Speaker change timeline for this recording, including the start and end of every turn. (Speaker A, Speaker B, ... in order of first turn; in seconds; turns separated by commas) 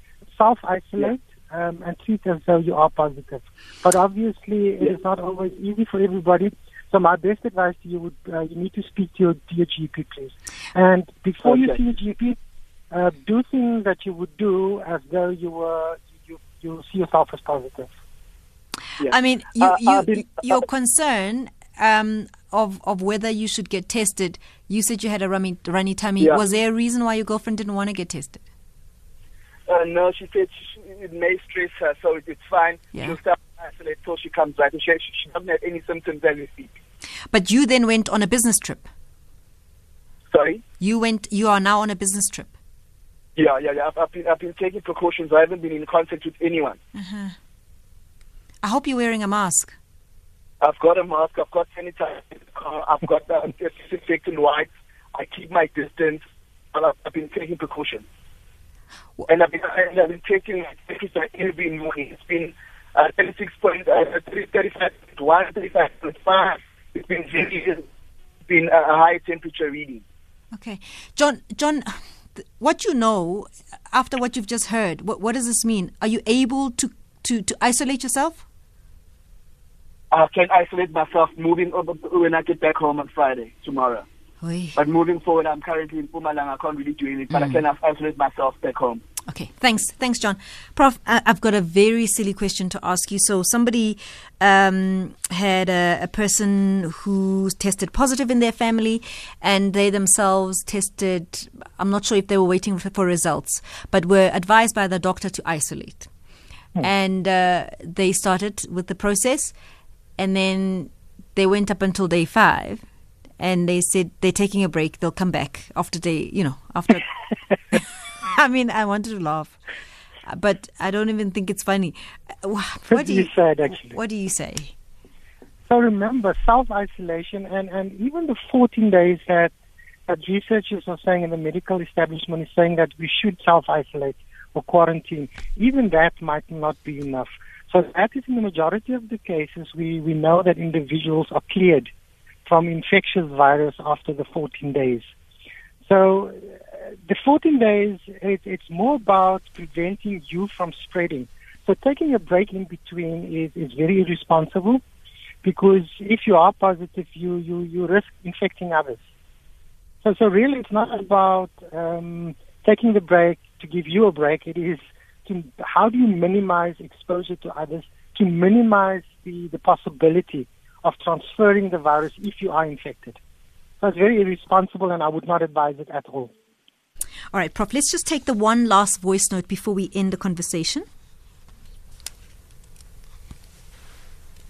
Speaker A: 0.3-12.4, Speaker B: 11.4-11.8, Speaker A: 12.9-17.9, Speaker B: 19.0-20.6, Speaker C: 19.0-28.4, Speaker B: 26.2-26.4, Speaker B: 29.7-36.8, Speaker C: 37.3-38.8, Speaker B: 40.3-40.6, Speaker C: 40.8-42.5, Speaker B: 43.4-46.8, Speaker C: 46.9-47.4, Speaker C: 48.6-49.8, Speaker B: 50.6-56.2, Speaker B: 56.7-58.0, Speaker B: 59.3-67.8, Speaker B: 68.5-70.0, Speaker C: 70.5-78.4, Speaker B: 80.1-84.1, Speaker C: 84.4-84.8, Speaker B: 84.8-89.0, Speaker C: 89.3-106.1, Speaker C: 106.8-109.5, Speaker C: 110.2-112.8, Speaker C: 113.4-117.1, Speaker C: 117.7-119.6, Speaker C: 120.2-124.7, Speaker A: 122.9-124.0, Speaker A: 125.7-129.5, Speaker A: 130.1-141.9, Speaker A: 142.4-145.1, Speaker A: 145.8-154.8, Speaker A: 155.4-159.0, Speaker A: 160.0-173.2, Speaker A: 173.8-176.3, Speaker C: 177.3-180.8